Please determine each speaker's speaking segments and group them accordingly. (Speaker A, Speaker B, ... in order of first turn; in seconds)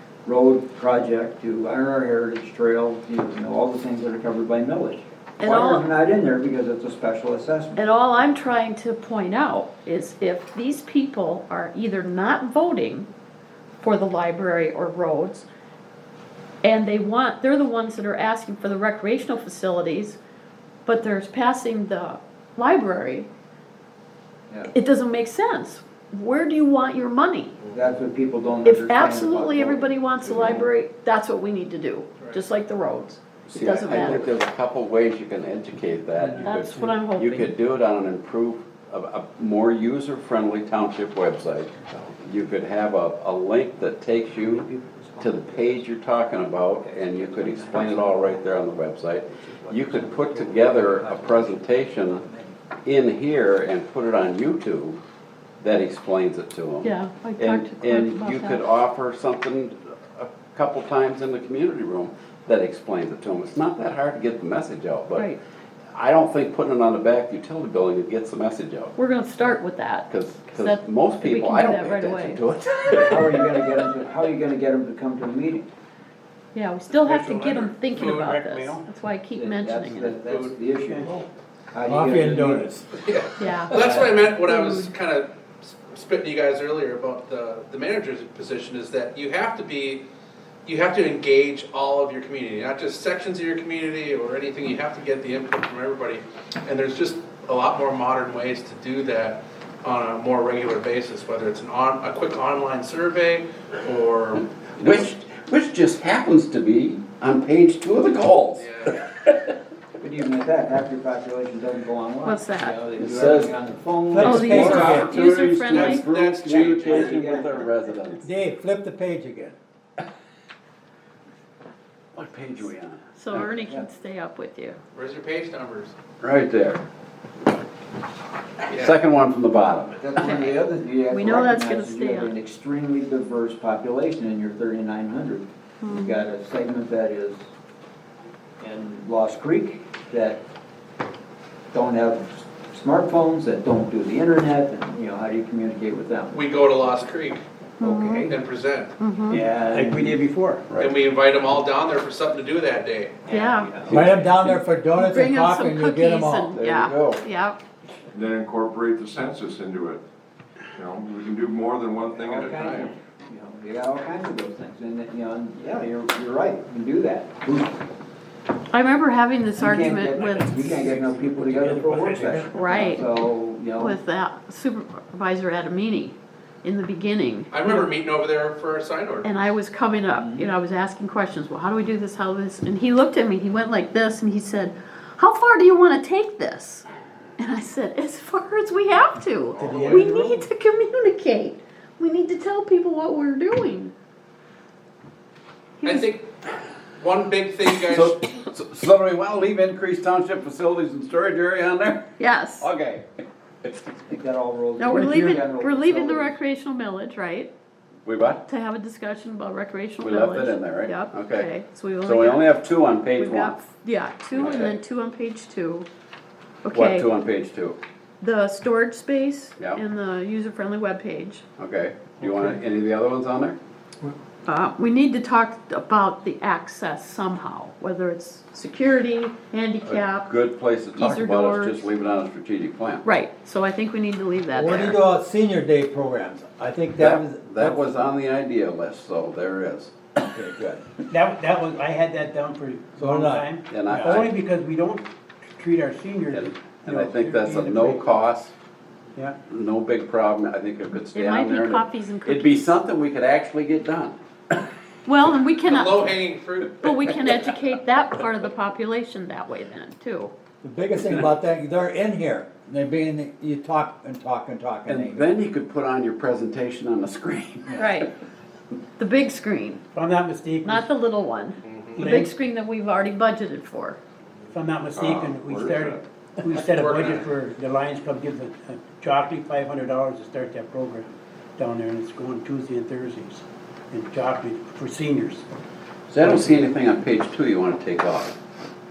Speaker A: 0.2-7.8, 27.7-30.7, 41.8-42.1, 44.3-45.9, 46.8-52.6, 72.9-75.7, 79.3-82.7, 83.7-84.2, 110.0-114.8, 116.8-117.7, 123.3-123.9, 130.0-137.5, 138.6-140.4, 141.7-146.4, 147.8-148.3, 149.3-150.2, 153.2-154.3, 162.1-167.8, 169.6-174.0, 180.1-180.5, 204.1-206.4
Speaker B: 5.4-5.9, 7.8-13.1, 13.8-15.5, 16.6-20.2, 20.9-23.3, 24.7-27.6, 28.6-34.3, 36.4-37.5, 56.8-58.6, 69.0-72.4, 76.5-80.2, 83.4-84.9, 112.2-112.8, 114.2-116.0, 123.2-124.8, 130.2-132.3, 135.8-136.2, 147.8-148.3, 149.0-149.4, 153.3-153.9, 154.9-157.6, 168.7-170.6, 172.5-173.0, 173.8-177.9, 179.2-186.8, 187.4-193.9, 195.8-196.1, 202.2-202.7, 204.8-207.5, 208.5-212.6, 213.2-215.9, 216.6-217.1, 218.2-221.4, 224.4-230.3, 230.9-231.8, 233.0-235.0, 251.1-252.7, 255.1-260.3, 267.7-268.1, 269.0-269.8, 270.6-274.0
Speaker C: 33.5-44.7, 45.2-52.2, 52.9-55.0, 55.6-65.3, 65.9-68.9, 70.1-73.4, 104.8-109.5, 113.0-113.5, 114.2-118.2, 122.1-123.0, 126.2-126.8, 128.7-130.0, 153.9-154.2, 156.5-157.2, 197.8-202.1, 202.6-203.1, 203.6-203.9, 208.0-208.4, 210.0-211.5, 212.0-213.6, 214.3-214.7, 216.7-217.8, 221.6-223.6, 229.8-233.0, 236.9-239.9, 243.7-244.3, 246.3-248.5, 249.5-254.2, 264.9-268.0, 286.1-288.3
Speaker D: 36.2-36.5, 77.0-78.9, 80.8-81.2, 149.6-150.7, 170.6-172.8, 189.6-190.5, 222.2-222.5, 241.1-245.1, 245.6-248.2, 269.9-270.9, 271.9-272.3, 274.5-285.4, 286.2-286.6
Speaker E: 77.4-78.3, 80.2-80.5, 83.0-90.0, 90.6-105.1, 108.5-109.0, 114.7-117.4, 124.9-125.9, 128.7-128.9, 146.3-147.4, 148.3-148.9, 150.8-153.2, 162.5-162.9, 177.5-179.3, 189.6-190.1, 195.8-196.3, 197.0-198.2, 255.6-257.3, 271.6-272.1, 276.5-277.3
Speaker F: 81.8-82.9, 114.1-115.1, 118.2-119.5, 153.9-156.5, 205.0-205.2, 234.5-238.1, 240.3-241.0, 243.0-243.5, 260.6-265.2
Speaker G: 158.1-160.0, 160.7-162.9, 274.9-276.0